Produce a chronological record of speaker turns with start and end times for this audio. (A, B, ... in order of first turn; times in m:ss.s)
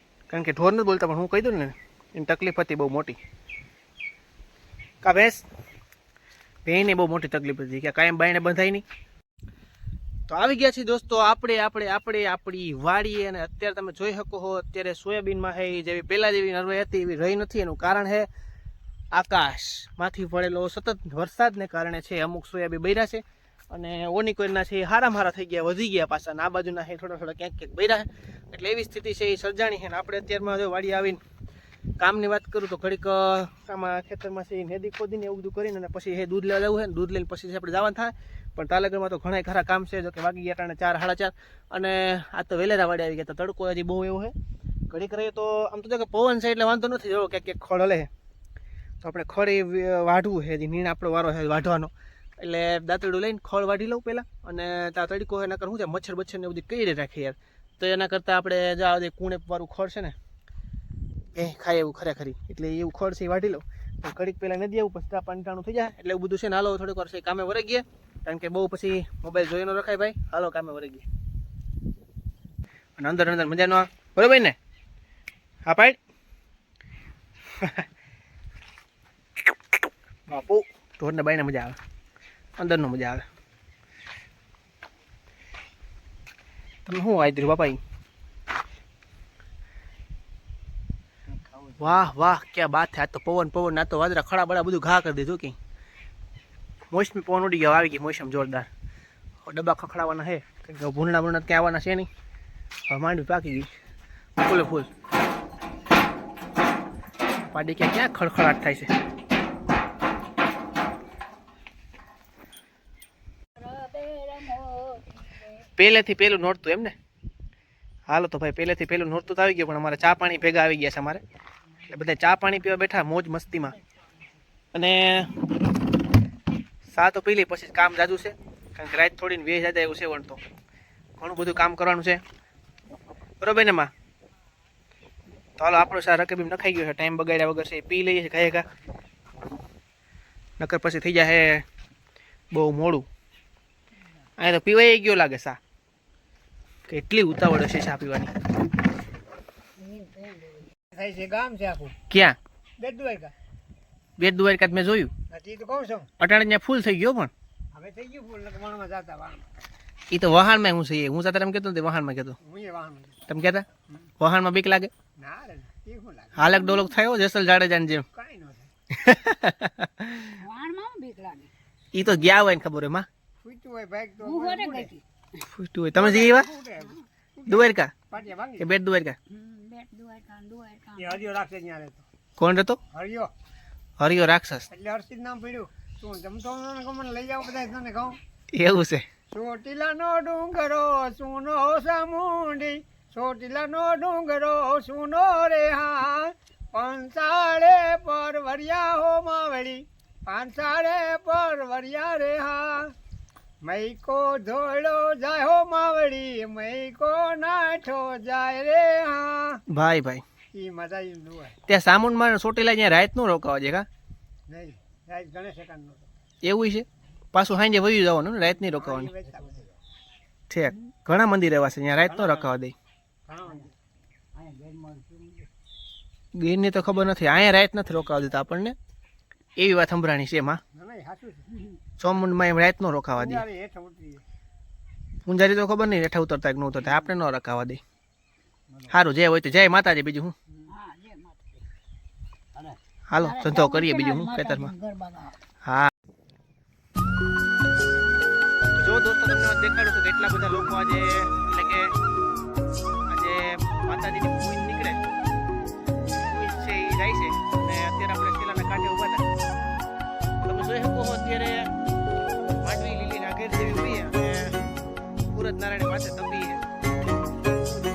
0:00.3-0:03.2 A
0:05.0-0:05.4 A
0:06.6-0:08.8 A
0:10.3-0:18.3 A
0:19.1-0:31.2 A
0:32.0-0:44.3 A
0:44.9-0:48.1 A
0:49.0-1:00.1 A
1:01.3-1:11.0 A
1:13.0-1:14.5 A
1:15.6-1:16.0 A
1:20.3-1:21.8 A
1:22.6-1:23.2 A
1:26.8-1:27.8 A
1:31.7-1:35.6 A
1:36.9-1:38.7 A
1:39.4-1:42.1 A
1:42.9-1:43.7 A
1:44.4-1:44.9 A
1:47.5-1:48.9 A
1:53.6-1:55.4 B
1:55.8-1:56.9 A
1:58.1-2:01.2 A
2:01.9-2:03.8 A
2:04.7-2:05.3 A
2:06.9-2:10.4 A
2:11.2-2:12.2 A
2:13.4-2:13.9 A
2:15.6-2:18.6 A
2:20.6-2:21.6 A
2:22.5-2:23.1 A
2:24.4-2:25.6 A
2:26.9-2:28.3 A
2:29.8-2:30.6 B
2:30.9-2:31.9 C
2:32.1-2:32.4 A
2:32.8-2:33.3 C
2:34.2-2:35.1 A
2:35.3-2:36.1 C
2:36.2-2:37.3 A
2:37.7-2:39.4 C
2:40.1-2:42.4 A
2:42.4-2:43.2 C
2:43.3-2:43.6 A
2:44.2-2:44.9 A
2:45.2-2:46.5 C
2:46.4-2:48.0 A
2:48.1-2:48.7 C
2:48.9-2:50.4 A
2:50.2-2:51.5 B
2:51.9-2:53.1 A
2:53.4-2:55.0 C
2:54.2-2:55.0 B
2:55.4-2:56.5 A
2:55.9-2:58.7 C
2:57.5-2:57.9 A
2:58.6-2:59.2 A
2:59.3-3:01.2 B
3:01.0-3:02.0 C
3:02.4-3:02.8 A
3:02.9-3:03.3 C
3:04.0-3:04.7 A
3:04.7-3:08.2 C
3:08.5-3:09.0 A
3:09.3-3:22.9 C
3:23.6-3:29.6 C
3:29.7-3:30.2 A
3:30.5-3:31.6 C
3:31.7-3:33.8 A
3:34.5-3:36.0 C
3:36.4-3:39.1 A
3:38.6-3:39.7 C
3:40.5-3:42.7 A
3:42.0-3:42.5 C
3:43.3-3:43.7 C
3:44.4-3:45.4 B
3:46.3-3:48.8 A
3:49.6-3:50.6 A
3:50.7-3:51.6 C
3:52.0-3:53.4 A
3:53.2-3:54.2 C
3:55.2-3:57.8 A
3:58.9-4:00.3 A
4:00.7-4:01.5 B
4:03.1-4:04.7 A
4:03.2-4:05.4 B
4:05.6-4:05.9 A
4:08.7-4:11.9 A
4:13.1-4:15.0 A
4:16.1-4:19.2 A
4:20.4-4:21.7 A
4:22.6-4:24.6 A
4:25.3-4:26.6 A